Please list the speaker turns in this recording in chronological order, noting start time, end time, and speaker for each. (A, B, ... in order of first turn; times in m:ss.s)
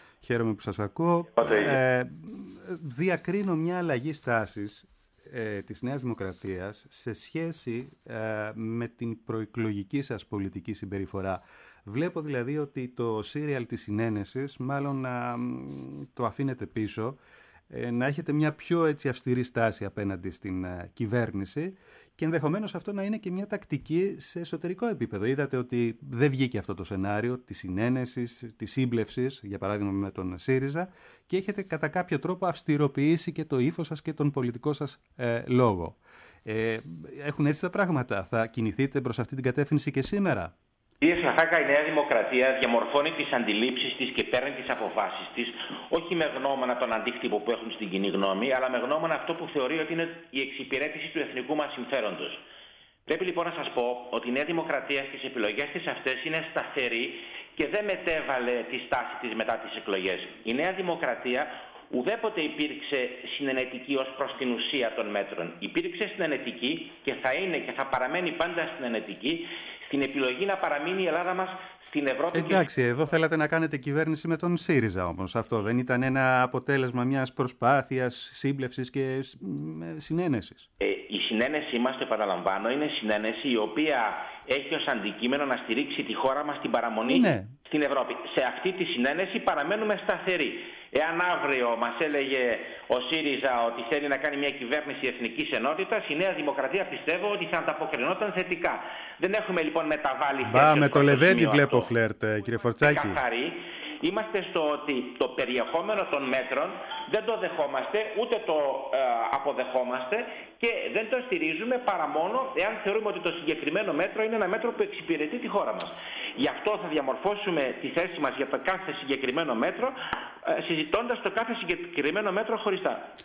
0:00.2-0:17.2 A
0:01.4-0:01.8 B
0:17.7-0:40.5 A
0:41.0-0:52.4 B
0:53.1-1:12.7 B
1:12.3-1:20.7 A
1:20.8-1:41.9 B
1:27.0-1:27.6 A
1:40.5-1:43.2 A
1:42.8-1:59.9 B
2:00.4-2:03.1 B